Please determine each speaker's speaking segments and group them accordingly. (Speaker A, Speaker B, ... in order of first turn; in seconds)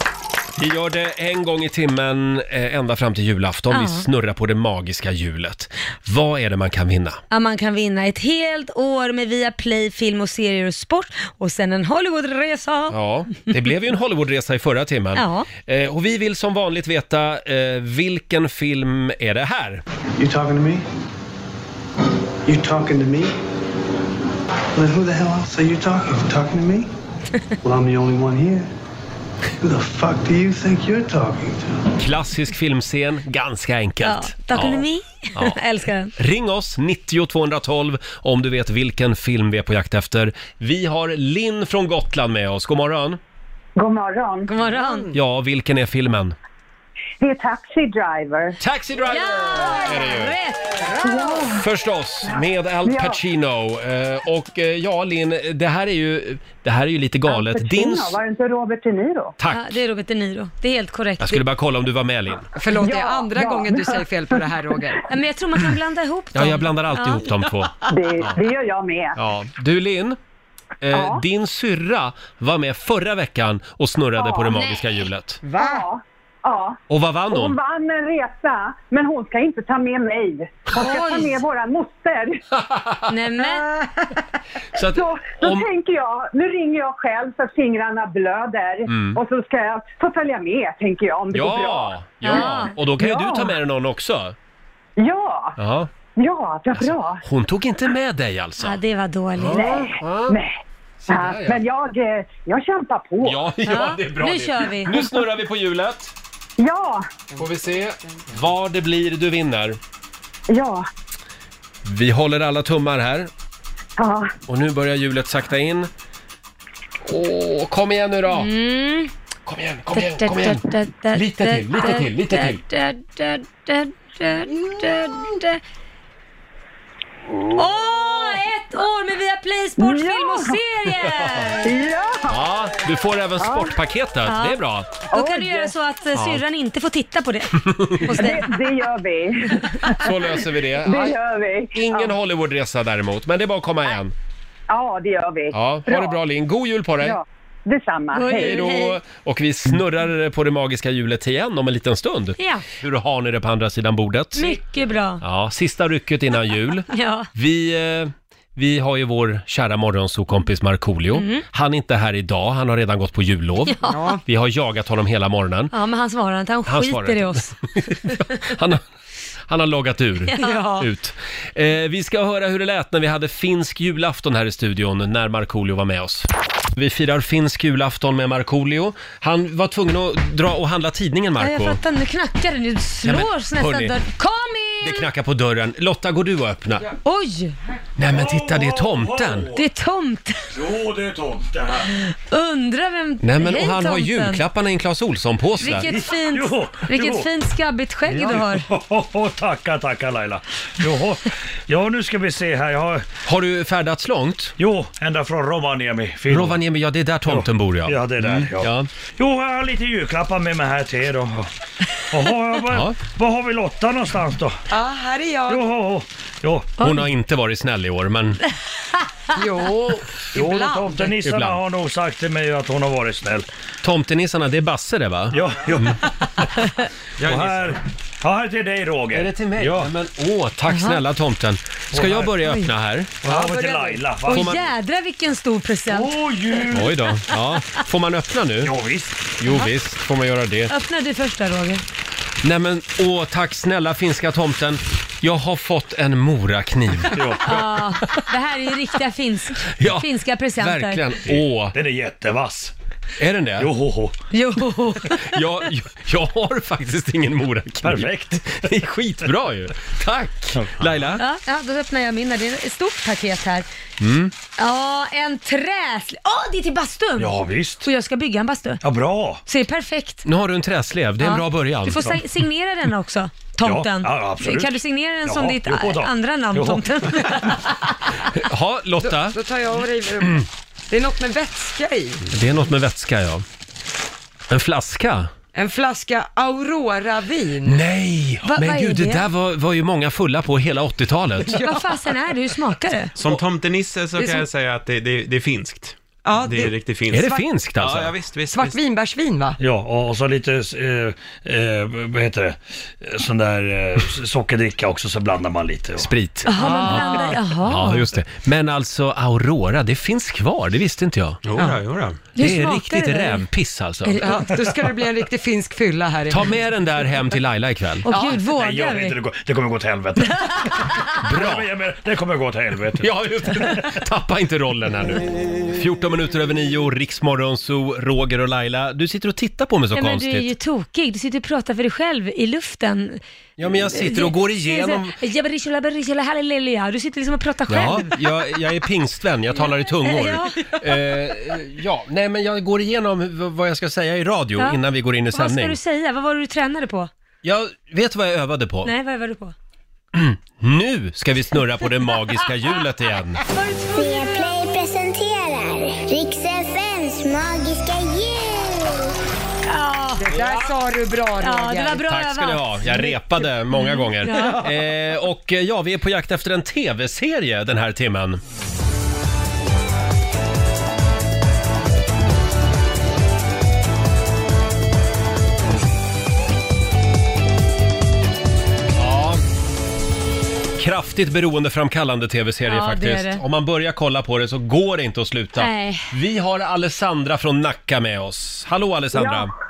Speaker A: 0.6-7.2, 12.9-19.8, 32.0-35.6, 36.1-43.2, 45.1-46.4, 48.6-50.3, 51.5-58.2, 59.4-59.8, 61.2-62.5, 66.3-68.3, 69.2-70.2, 70.8-75.4, 76.9-77.5, 82.5-83.1, 84.7-85.7, 88.9-89.2, 91.3-94.3, 95.6-95.9, 96.7-98.8, 99.3-100.4, 101.0-101.6, 103.2-106.1, 107.3-109.8, 111.8-113.3, 114.5-115.9, 117.0-118.5, 119.5-122.6, 132.3-134.9, 136.1-136.4, 137.6-138.3, 140.0-141.2, 141.7-144.1, 145.5-147.2, 148.3-154.6, 155.2-165.7, 166.7-168.8, 169.5-181.8, 183.0-183.9, 184.8-186.9, 188.0-189.5, 193.2-195.9, 203.2-204.5, 206.3-208.9, 212.7-213.0, 216.8-218.4, 221.2-221.6, 223.8-225.9, 229.1-233.1, 234.3-234.6, 236.7-238.7, 239.4-240.7, 242.4-247.6, 249.8-251.8, 253.2-253.7, 255.1-261.2, 264.0-264.3, 270.2-272.2, 278.3-279.4, 282.3-283.4, 284.5-285.3, 287.6-291.6, 297.1-298.1, 306.0-311.4, 312.4-314.3, 316.3-318.0, 321.2-321.7, 323.0-330.5, 333.6-335.1, 337.7-345.8, 347.4-348.9, 350.1-353.4, 360.3-360.7, 362.0-368.4, 378.9-379.4, 380.8-389.5
Speaker B: 3.7-4.0, 7.3-12.9, 15.1-15.5, 34.0-36.1, 44.5-45.1, 49.1-51.1, 59.5-61.4, 65.1-67.2, 74.5-74.8, 80.8-81.4, 83.1-83.7, 92.2-92.7, 98.6-99.8, 103.6-105.2, 118.3-119.1, 119.9-125.6, 127.5-131.7, 134.2-138.6, 148.1-149.0, 152.4-152.6, 154.3-155.2, 156.9-157.3, 161.1-161.4, 163.7-164.1, 165.7-167.5, 170.3-170.6, 181.4-185.1, 187.0-187.6, 189.5-190.5, 192.1-194.4, 195.6-198.7, 230.7-231.0, 234.3-236.2, 240.7-241.8, 247.4-251.0, 254.3-255.3, 261.2-263.7, 264.6-268.8, 269.5-270.2, 271.2-277.7, 288.5-289.2, 291.6-293.1, 306.4-308.1, 312.4-313.4, 318.0-319.2, 320.4-321.0, 329.9-333.2, 333.8-338.2, 339.6-340.7, 345.3-347.1, 348.8-349.5, 353.5-354.6, 359.7-360.2, 361.4-364.6, 382.6-383.4, 385.6-386.1
Speaker C: 20.2-20.8, 22.5-23.2, 24.8-26.8, 27.7-28.6, 29.7-31.6
Speaker D: 43.8-44.5, 47.2-48.6, 51.0-51.6, 52.2-53.2, 57.3-59.3, 62.8-64.3, 67.8-69.2, 70.9-71.2, 74.2-74.6, 75.5-82.4, 84.9-93.5, 95.0-95.6, 96.2-97.2, 99.5-100.6, 101.1-103.4, 106.6-107.1, 110.5-110.8, 114.0-114.3, 129.8-130.5, 131.6-132.4, 133.4-133.7, 135.1-135.7, 138.2-142.1, 144.7-146.2, 147.0-148.7
Speaker E: 44.6-45.1, 62.5-65.0, 75.4-75.8, 163.8-164.2, 170.4-170.9, 214.7-215.7, 219.3-221.1, 233.2-234.1, 279.0-282.2, 285.5-287.8, 291.4-292.1, 294.2-294.4, 296.2-296.8, 298.5-299.6, 306.5-307.4, 314.2-316.5, 318.1-318.4, 360.2-362.1
Speaker F: 188.0-189.6, 190.5-191.9, 195.6-197.3, 198.1-203.1, 204.6-206.6, 207.2-211.5, 212.1-214.6, 215.5-216.7, 220.3-223.5, 225.3-226.5, 227.2-229.9, 231.9-232.4, 233.2-234.5, 235.9-237.1, 238.6-239.3, 247.1-247.6, 251.2-252.7, 253.6-254.1, 257.8-258.6, 260.5-261.1, 267.2-267.9, 268.8-269.4, 273.6-277.5, 299.6-306.1, 306.8-307.2, 318.4-323.9
Speaker G: 227.2-227.6, 293.1-298.8, 311.4-312.2
Speaker H: 353.9-359.1